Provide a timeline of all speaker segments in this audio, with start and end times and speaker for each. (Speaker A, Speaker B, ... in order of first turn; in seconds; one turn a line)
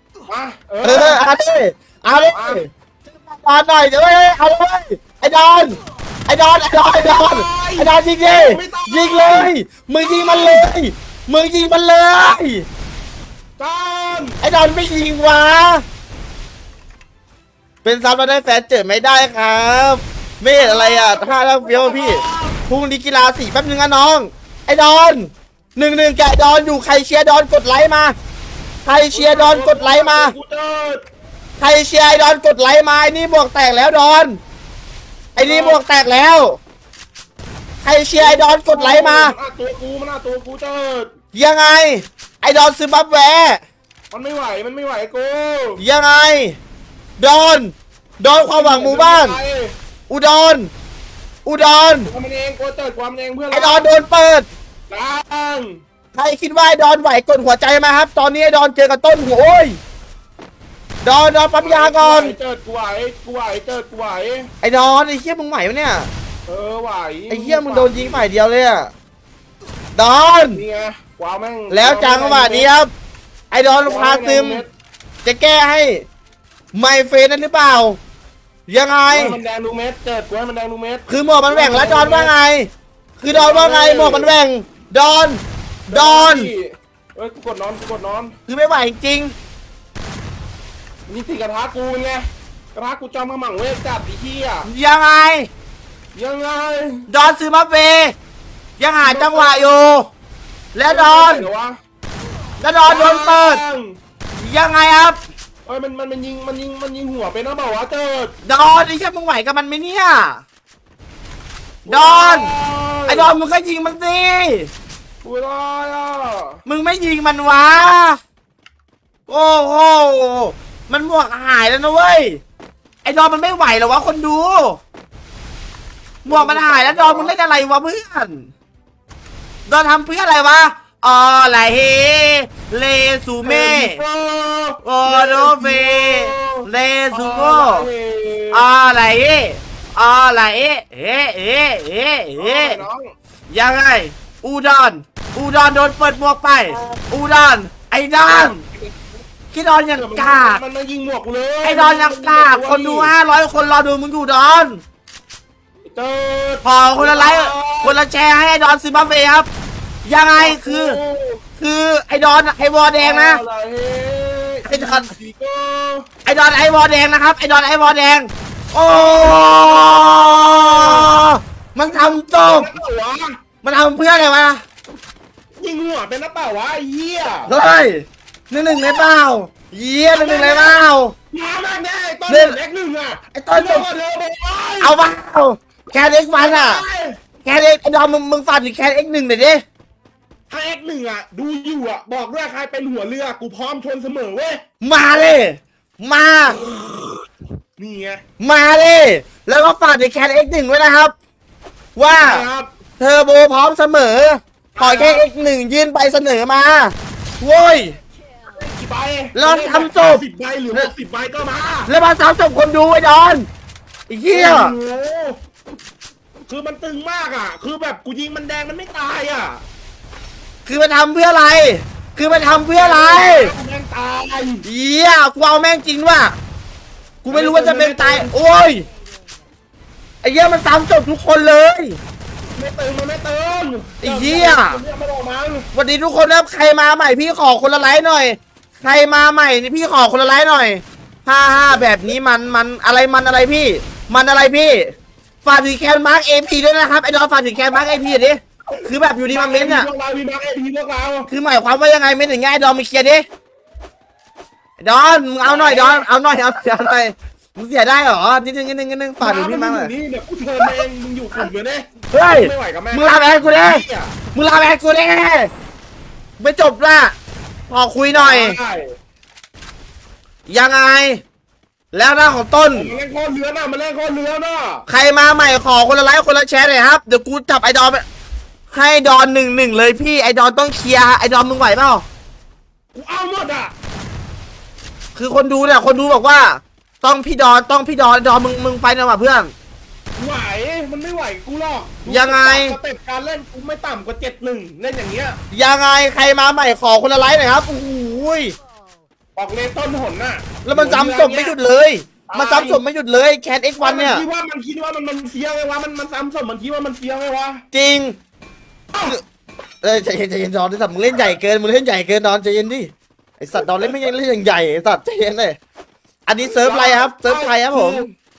Speaker A: 0.3-1.2
Speaker B: 0.8-12.7
Speaker A: 2.3-2.6
Speaker A: 7.0-10.7
Speaker A: 13.6-14.4
Speaker B: 14.4-15.8
Speaker B: 17.8-28.1
Speaker A: 20.6-22.6
Speaker B: 28.8-30.3
Speaker A: 29.1-31.0
Speaker B: 31.6-34.4
Speaker B: 35.3-36.6
Speaker A: 35.4-35.8
Speaker B: 37.8-39.3
Speaker A: 38.2-41.1
Speaker B: 41.3-43.6
Speaker A: 44.1-45.8
Speaker B: 45.8-46.6
Speaker B: 47.2-49.4
Speaker A: 48.5-49.7
Speaker B: 50.1-50.7
Speaker B: 51.4-52.1
Speaker A: 52.0-53.9
Speaker B: 53.5-54.5
Speaker A: 54.9-55.8
Speaker B: 56.1-59.8
Speaker B: 61.0-62.4
Speaker A: 61.6-64.5
Speaker B: 64.6-66.1
Speaker A: 66.5-68.2
Speaker B: 67.3-68.9
Speaker B: 69.9-70.6
Speaker A: 70.5-72.7
Speaker B: 71.7-72.9
Speaker B: 73.5-74.6
Speaker A: 73.8-74.7
Speaker B: 75.2-76.0
Speaker B: 76.7-78.0
Speaker B: 78.7-79.4
Speaker A: 79.1-82.3
Speaker B: 81.1-86.5
Speaker A: 83.3-84.3
Speaker A: 85.9-88.3
Speaker B: 88.5-89.3
Speaker A: 91.1-94.7
Speaker B: 94.7-95.5
Speaker A: 96.1-97.1
Speaker B: 97.1-98.1
Speaker B: 98.8-100.1
Speaker A: 99.0-99.7
Speaker B: 100.7-101.5
Speaker A: 100.8-101.7
Speaker B: 102.6-103.6
Speaker A: 102.8-104.0
Speaker B: 104.3-105.2
Speaker A: 105.6-108.3
Speaker B: 108.4-110.4
Speaker B: 111.8-112.5
Speaker A: 111.9-113.3
Speaker B: 113.1-114.7
Speaker A: 115.2-116.6
Speaker B: 116.6-118.2
Speaker B: 119.3-122.4
Speaker B: 123.0-124.8
Speaker B: 126.2-128.5
Speaker A: 126.2-127.3
Speaker B: 129.7-134.0
Speaker A: 133.4-138.7
Speaker B: 134.8-137.9
Speaker B: 138.5-142.8
Speaker A: 142.4-143.1
Speaker B: 143.5-148.6
Speaker A: 146.7-147.0
Speaker A: 148.3-149.1
Speaker B: 149.5-150.6
Speaker A: 149.9-153.1
Speaker B: 151.6-154.8
Speaker A: 155.8-158.0
Speaker B: 156.6-159.5
Speaker B: 160.0-161.0
Speaker A: 160.3-161.4
Speaker B: 161.6-163.4
Speaker A: 162.9-166.1
Speaker B: 164.7-165.1
Speaker B: 166.2-172.7
Speaker A: 168.8-171.1
Speaker A: 171.9-173.4
Speaker B: 173.6-174.6
Speaker A: 175.6-177.5
Speaker B: 177.5-181.1
Speaker A: 180.1-180.8
Speaker A: 181.3-185.0
Speaker B: 182.3-182.6
Speaker B: 183.3-183.9
Speaker B: 184.8-186.8
Speaker A: 186.3-187.2
Speaker B: 187.4-189.6
Speaker A: 190.5-194.6
Speaker B: 194.8-196.6
Speaker A: 196.5-197.2
Speaker A: 197.8-198.2
Speaker B: 198.4-201.1
Speaker B: 201.9-202.4
Speaker A: 202.1-202.7
Speaker B: 203.0-208.0
Speaker A: 204.8-205.3
Speaker A: 208.5-211.9
Speaker B: 209.3-210.2
Speaker B: 211.9-213.5
Speaker B: 214.1-214.7
Speaker A: 214.3-215.4
Speaker A: 216.5-219.6
Speaker B: 220.6-223.5
Speaker A: 222.2-224.7
Speaker B: 224.6-226.3
Speaker B: 227.2-228.9
Speaker A: 227.3-228.3
Speaker B: 230.2-232.0
Speaker A: 232.5-235.7
Speaker B: 234.0-234.8
Speaker B: 235.7-244.9
Speaker A: 241.5-242.1
Speaker B: 245.4-249.9
Speaker A: 248.7-251.3
Speaker B: 251.3-253.2
Speaker B: 254.8-259.9
Speaker A: 255.4-256.1
Speaker A: 259.2-264.1
Speaker B: 262.1-265.5
Speaker B: 266.4-267.1
Speaker B: 267.7-268.6
Speaker A: 268.1-268.9
Speaker B: 270.5-271.2
Speaker B: 271.9-272.9
Speaker A: 272.7-274.8
Speaker B: 274.9-278.0
Speaker B: 278.7-282.0
Speaker A: 282.9-283.7
Speaker B: 285.1-289.5
Speaker A: 290.2-295.4
Speaker B: 292.1-292.8
Speaker B: 295.5-298.6
Speaker A: 299.3-301.5
Speaker B: 300.6-304.2
Speaker A: 302.3-302.8
Speaker A: 303.8-307.6
Speaker B: 307.7-308.2
Speaker A: 308.9-309.2
Speaker B: 309.8-315.6
Speaker A: 313.6-313.9
Speaker B: 316.3-318.1
Speaker A: 316.4-318.1